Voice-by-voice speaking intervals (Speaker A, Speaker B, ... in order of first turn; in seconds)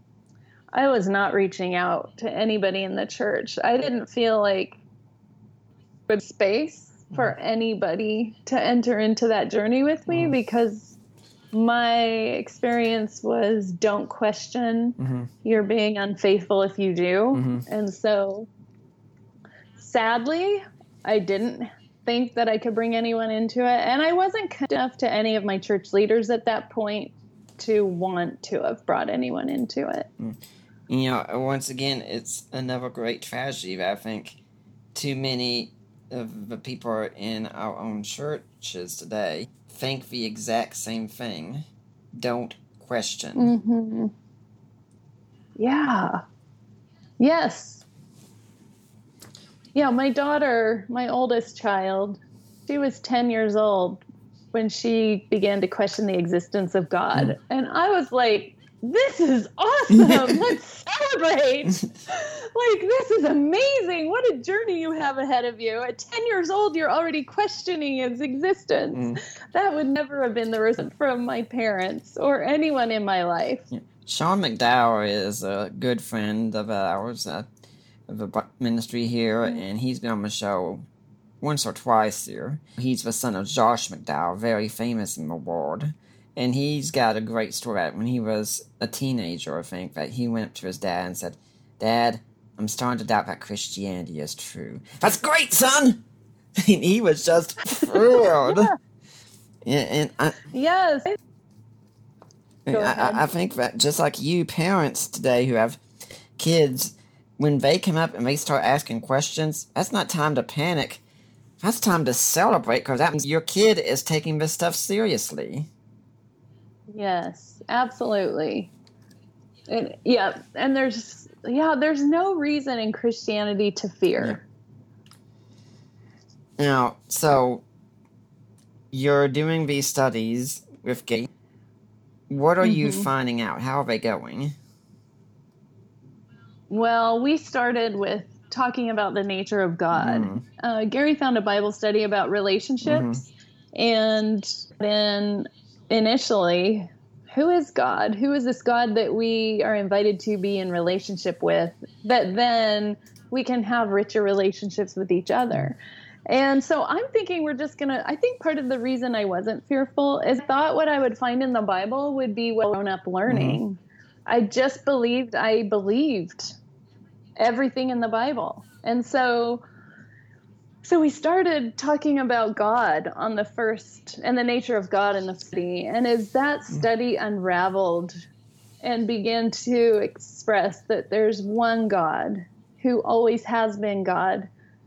Speaker A: 0.7-4.8, 6.1-11.0, 11.5-18.5, 19.8-30.1, 43.4-44.1, 45.6-46.2, 47.2-47.8, 49.7-54.0, 54.5-73.7, 97.7-98.8, 100.5-101.2, 102.7-103.2, 116.9-118.7, 119.7-124.4, 132.6-133.1, 136.7-155.8, 156.3-166.6, 167.4-169.6, 170.8-178.2, 178.8-184.5
Speaker B: 10.1-10.3, 15.0-15.3, 17.3-17.6, 30.2-34.4, 34.9-43.5, 59.9-60.4, 68.9-69.2, 73.7-77.5, 78.1-80.9, 81.4-96.0, 96.6-98.7, 99.6-100.5, 102.7-105.8, 106.4-111.0, 111.6-115.7, 126.6-127.6, 128.9-131.3, 132.3-134.5, 139.9-140.4, 142.8-143.2, 163.3-163.6